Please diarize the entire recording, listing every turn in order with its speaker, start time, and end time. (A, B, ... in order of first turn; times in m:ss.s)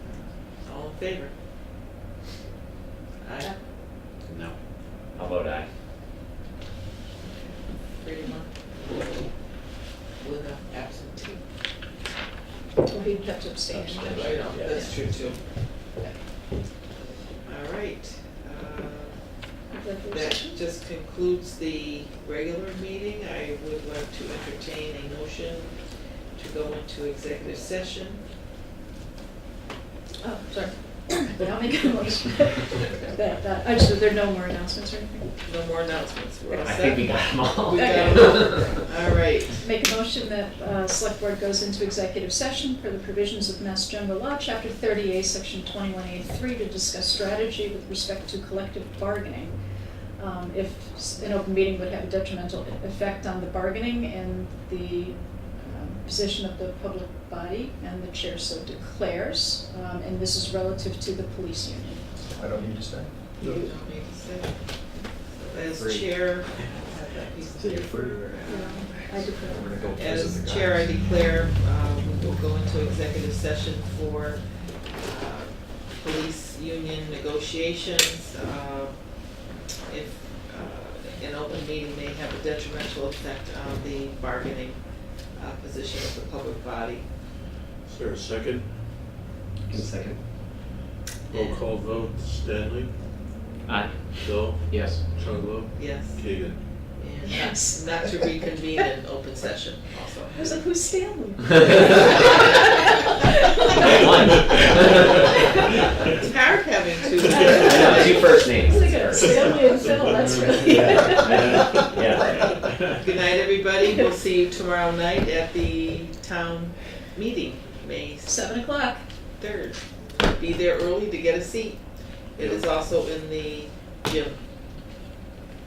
0:00.6-0:01.3 A
0:03.2-0:03.6 A
0:04.3-0:04.6 B
0:05.2-0:05.7 B
0:07.2-0:08.5 A
0:10.2-0:11.4 A
0:12.8-0:15.3 C
0:13.7-0:14.8 B
0:14.1-0:15.4 A
0:17.4-0:19.3 A
0:19.7-0:20.6 C
0:20.1-0:25.8 A
0:26.4-0:28.2 A
0:30.2-0:35.3 C
0:35.4-0:39.6 A
0:36.6-0:38.8 B
0:37.7-0:38.8 C
0:39.6-0:49.6 C
0:50.2-1:02.1 C
1:02.4-1:03.1 D
1:03.4-1:03.7 C
1:03.5-1:08.9 A
1:07.6-1:08.6 D
1:08.4-1:09.7 C
1:09.1-1:10.9 D
1:09.8-1:14.4 A
1:15.0-1:27.1 A
1:27.8-1:28.8 E
1:29.7-1:30.1 D
1:31.3-1:31.6 A
1:31.3-1:33.0 E
1:33.7-1:35.0 B
1:34.1-1:36.6 E
1:35.7-1:40.7 A
1:37.2-1:38.9 C
1:40.4-1:45.0 C
1:43.8-1:45.0 B
1:46.1-1:48.4 A
1:47.2-1:52.5 C
1:47.6-1:49.4 B
1:49.3-1:53.0 E
1:50.7-1:52.4 B
1:53.0-1:58.4 A
1:58.2-1:59.0 C
1:59.4-2:01.8 A
2:02.4-2:04.4 A